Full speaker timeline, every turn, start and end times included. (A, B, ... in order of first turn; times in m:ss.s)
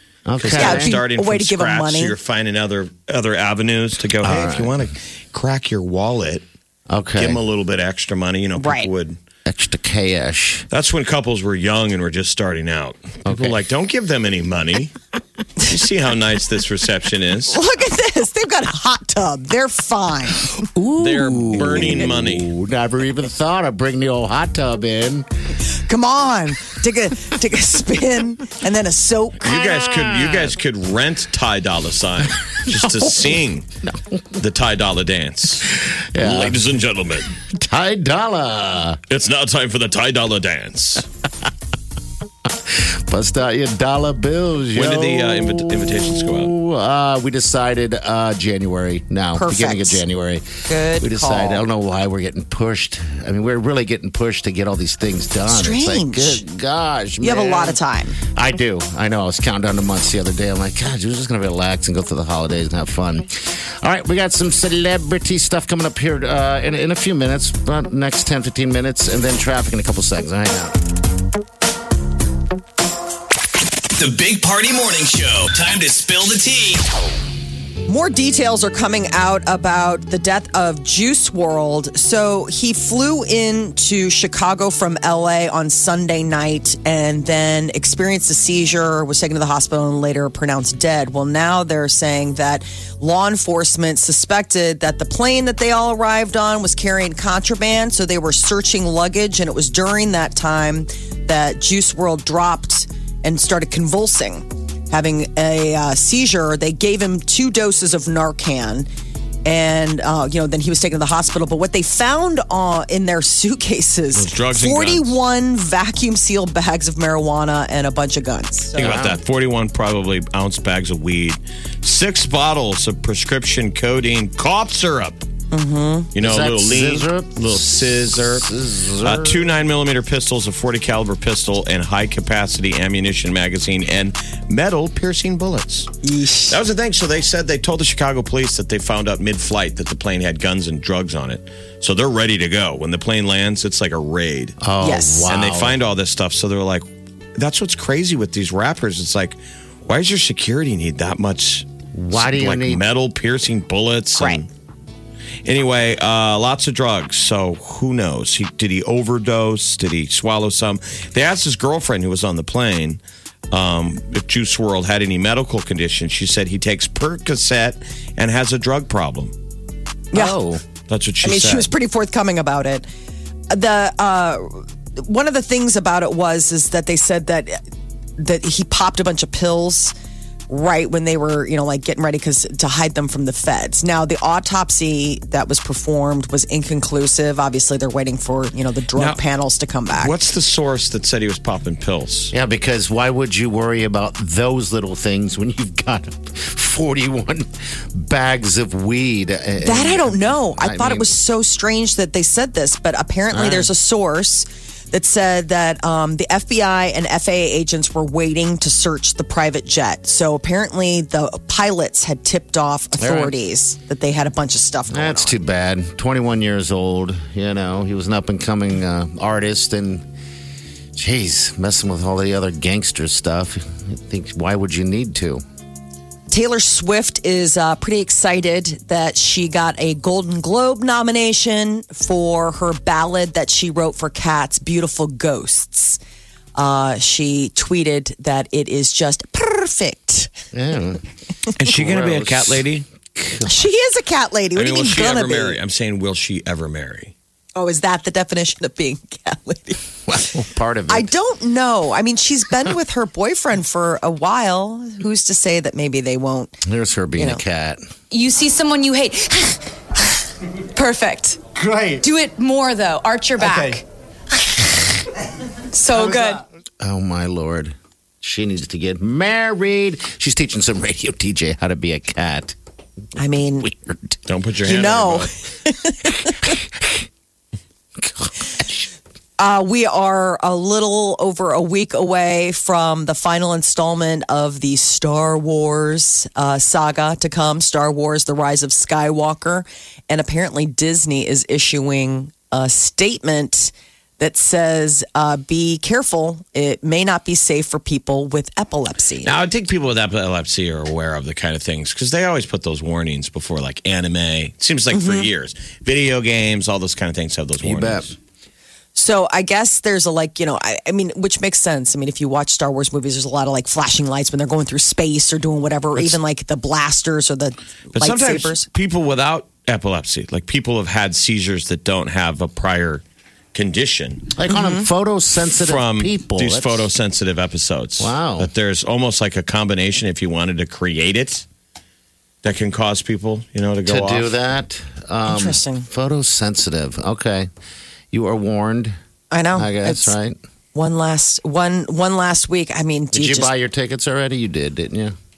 0:00.3-0:01.0 A
0:00.4-0:06.4 B
0:00.5-0:02.2 C
0:04.2-0:04.8 A
0:06.9-0:07.4 A
0:07.2-0:09.2 B
0:08.6-0:08.9 C
0:09.5-0:10.7 A
0:10.7-0:15.0 B
0:13.3-0:13.6 A
0:15.6-0:17.6 B
0:17.5-0:20.6 C
0:20.6-0:25.3 A
0:21.0-0:22.5 B
0:25.7-0:29.5 C
0:29.4-0:33.7 B
0:29.4-0:30.6 A
0:32.7-0:34.2 A
0:34.4-0:37.4 B
0:35.8-0:36.6 A
0:37.5-0:39.0 A
0:39.1-0:41.1 B
0:42.5-0:50.5 A
0:44.8-0:46.6 B
0:49.3-0:50.0 C
0:50.7-0:51.7 C
0:51.0-0:57.8 A
0:55.5-0:56.4 C
0:57.2-0:58.2 C
0:58.3-1:10.8 A
1:14.0-1:16.8 D
1:17.8-1:48.9 C
1:49.4-1:58.8 C
1:54.1-1:55.2 B
1:58.7-1:59.2 A
1:58.8-2:05.2 B
2:05.5-2:06.1 C
2:06.2-2:08.5 B
2:06.2-2:09.5 A
2:09.0-2:15.9 B
2:16.0-2:16.6 C
2:16.5-2:24.6 B
2:24.6-2:25.8 A
2:24.8-2:25.3 C
2:25.3-2:26.8 B
2:27.4-2:34.5 B
2:31.9-2:32.8 A
2:34.2-2:34.4 C
2:35.4-2:49.4 B
2:50.1-2:50.4 C
2:50.1-2:50.6 A
2:50.9-2:51.7 B
2:51.2-2:52.9 C
2:53.5-2:57.6 C
2:58.2-2:59.9 C
3:00.5-3:10.2 C
3:09.9-3:12.3 B
3:12.3-3:21.2 A
3:19.6-3:35.4 C
3:23.3-3:23.7 A
3:33.0-3:33.4 A
3:34.9-3:40.0 A
3:41.0-3:45.4 A
3:46.3-3:56.0 C
3:56.6-4:00.3 C
4:00.5-4:01.0 A
4:01.6-4:02.9 B
4:01.6-4:03.7 A
4:03.4-4:05.6 C
4:04.6-4:07.1 B
4:07.6-4:09.8 C
4:10.1-4:11.1 A
4:10.9-4:16.6 C
4:16.6-4:17.8 A
4:17.2-4:17.4 C
4:18.1-4:19.6 E
4:20.8-4:23.8 E
4:25.7-4:26.4 E
4:26.8-4:32.6 A
4:33.2-4:33.7 C
4:33.6-4:34.1 A
4:34.3-4:35.4 B
4:34.7-4:36.6 C
4:36.4-4:37.1 A
4:38.0-4:38.9 A
4:39.4-4:59.3 C
4:59.2-5:08.2 B
5:04.9-5:05.3 C
5:07.6-5:08.1 A
5:09.0-5:18.7 C
5:18.0-5:23.0 B
5:23.5-5:24.3 B
5:24.3-5:26.9 A
5:24.5-5:24.9 C
5:25.5-5:31.4 B
5:28.0-5:28.5 A
5:32.4-5:34.3 B
5:33.9-5:37.5 A
5:35.3-5:35.9 C
5:38.1-5:38.9 A
5:39.3-5:40.2 C
5:39.6-5:40.4 A
5:40.8-5:43.5 C
5:43.1-5:45.1 A